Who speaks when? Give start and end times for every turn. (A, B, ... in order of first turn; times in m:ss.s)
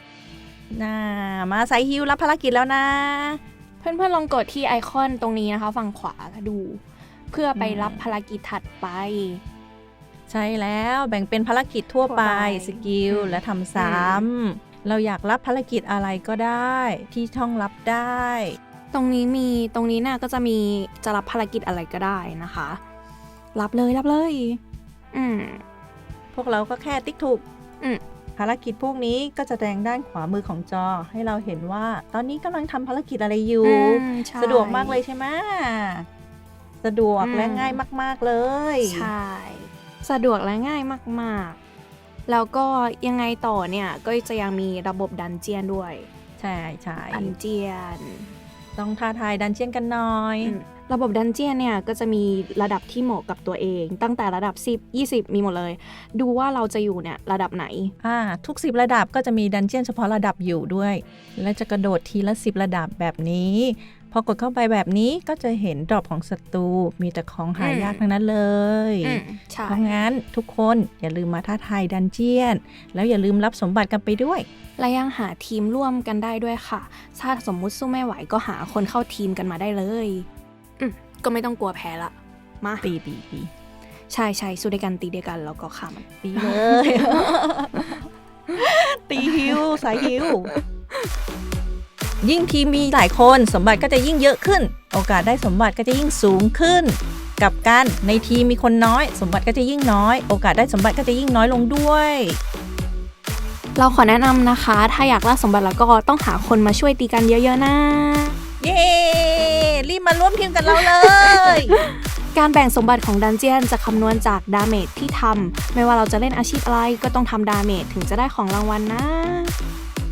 0:00.7-0:03.4 A
0:03.8-0:09.4 B
0:07.6-0:08.1 A
0:10.3-0:18.6 A
0:12.0-0:14.2 B
0:18.9-0:22.8 B
0:23.5-0:24.6 B
0:25.1-0:25.6 B
0:26.3-0:27.4 A
0:28.4-0:36.0 A
0:33.6-0:35.0 B
0:36.8-0:39.1 A
0:37.2-0:37.8 B
0:38.8-0:41.6 B
0:42.3-0:46.1 B
0:46.4-0:47.3 A
0:47.0-0:48.3 B
0:48.8-0:50.5 A
0:50.4-0:57.9 B
0:58.0-1:14.4 A
1:07.6-1:08.0 B
1:09.0-1:10.0 B
1:14.8-1:20.3 B
1:20.8-1:22.9 B
1:22.8-1:23.5 A
1:24.1-1:28.0 B
1:26.2-1:28.0 A
1:28.6-1:30.5 A
1:29.2-1:31.1 B
1:32.2-1:42.4 A
1:43.8-1:48.3 B
1:48.6-1:51.7 A
1:50.7-1:59.5 B